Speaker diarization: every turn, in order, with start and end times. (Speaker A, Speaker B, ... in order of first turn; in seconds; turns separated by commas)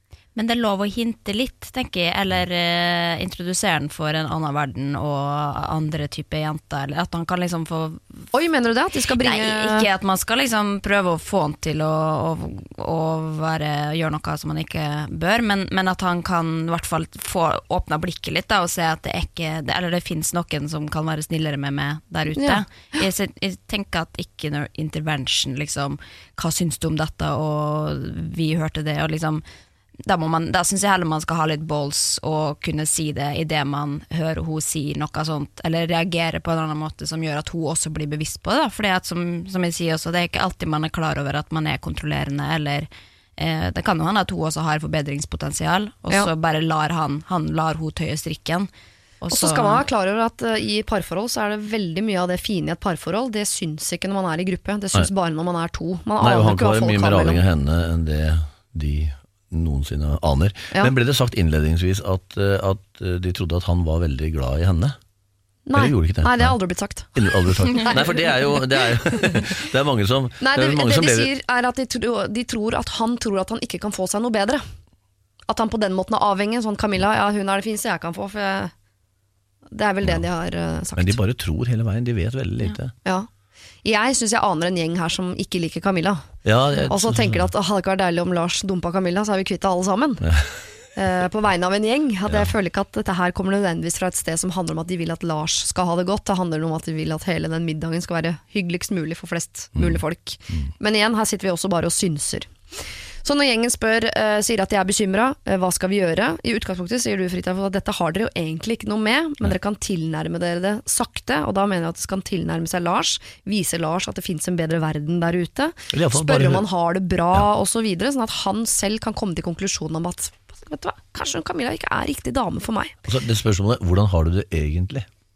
Speaker A: 0.3-8.3, Speaker B: 8.3-9.9, Speaker A: 9.2-29.4, Speaker B: 22.4-22.6, Speaker A: 30.1-48.7, Speaker A: 49.2-49.8, Speaker B: 49.3-57.4, Speaker C: 56.2-65.0, Speaker B: 65.7-69.5, Speaker C: 65.7-66.5, Speaker C: 67.2-71.3, Speaker B: 70.4-74.6, Speaker B: 75.5-78.7, Speaker B: 79.7-81.2, Speaker C: 81.0-82.9, Speaker B: 83.8-86.2, Speaker C: 86.5-87.5, Speaker B: 86.8-90.3, Speaker C: 90.2-90.6, Speaker B: 91.0-102.5, Speaker C: 92.3-92.5, Speaker C: 99.8-100.0, Speaker B: 103.2-123.0, Speaker C: 115.9-116.7, Speaker C: 123.0-125.1